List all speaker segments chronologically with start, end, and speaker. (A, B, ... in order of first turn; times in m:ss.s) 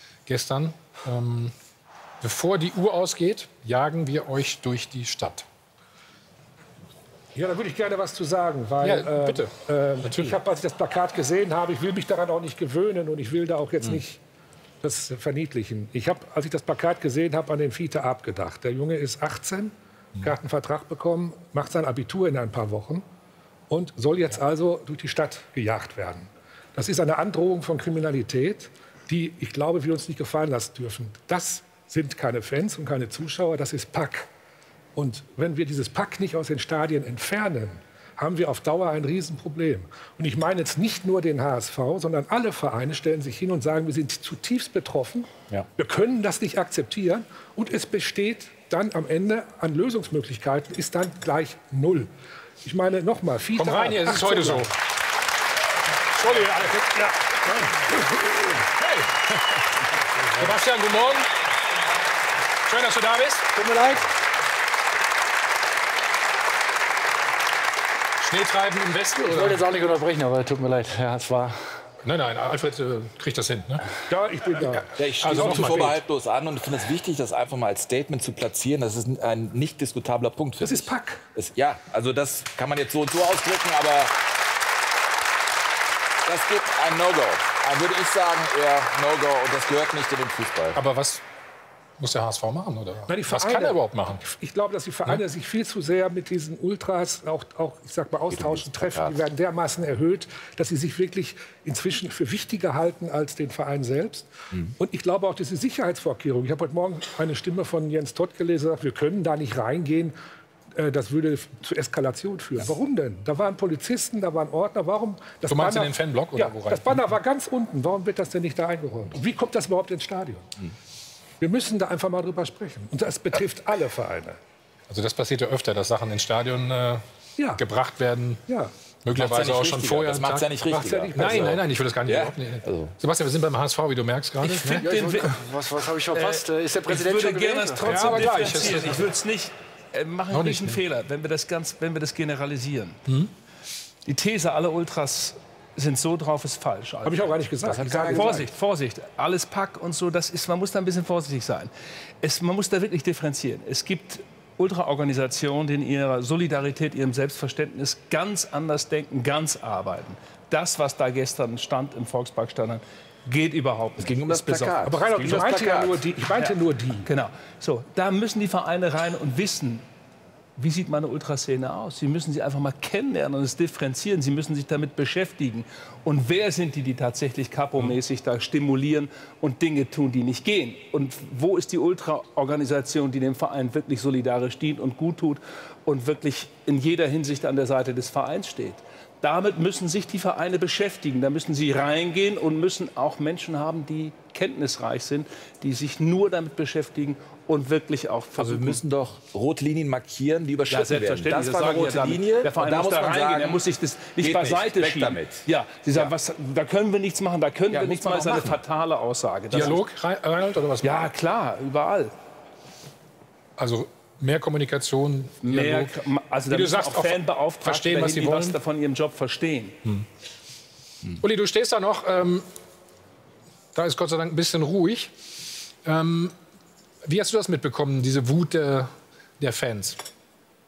0:00.3-0:01.5 A
0:02.2-0:05.4 A
0:07.4-0:14.2 B
0:08.8-0:10.4 A
0:14.8-0:23.0 B
0:23.7-0:34.3 B
0:35.0-0:52.1 B
0:52.6-0:54.7 B
0:53.6-0:54.7 A
0:56.1-0:57.1 A
0:57.3-0:57.9 B
0:58.8-0:59.0 A
1:00.3-1:01.3 A
1:02.6-1:03.6 A
1:03.6-1:04.1 C
1:08.2-1:09.7 A
1:09.2-1:11.7 C
1:12.0-1:13.8 A
1:14.1-1:16.0 B
1:15.0-1:24.2 D
1:15.2-1:16.0 A
1:20.6-1:21.2 B
1:26.3-1:30.8 D
1:30.8-1:31.2 A
1:32.0-1:34.2 A
1:33.1-1:50.2 B
1:38.3-1:39.2 D
1:50.8-2:00.6 B
1:55.5-1:57.1 A
2:01.4-2:04.4 B
2:04.9-2:07.0 A
2:07.4-2:07.6 B
2:07.6-2:08.4 A
2:08.5-2:08.7 B
2:09.0-2:10.5 A
2:09.2-2:12.9 D
2:10.7-2:11.6 B
2:11.2-2:14.9 A
2:14.4-2:23.0 E
2:14.8-2:18.0 C
2:17.8-2:18.9 B
2:17.9-2:19.1 A
2:20.3-2:20.8 A
2:24.0-2:27.3 E
2:27.0-2:28.5 B
2:27.7-2:28.3 D
2:27.9-2:31.7 E
2:32.2-2:45.5 E
2:44.0-2:46.0 D
2:44.8-2:47.1 B
2:46.4-2:49.8 E
2:50.6-3:18.8 E
3:18.4-3:23.6 D
3:20.7-3:29.8 E
3:24.2-3:25.4 D
3:27.7-3:28.6 D
3:29.5-3:31.1 A
3:30.8-3:32.1 E
3:33.6-3:36.0 A
3:35.4-3:39.8 E
3:36.5-3:38.6 A
3:41.1-3:42.5 A
3:43.8-3:45.1 A
3:45.8-3:46.3 A
3:47.0-3:50.0 A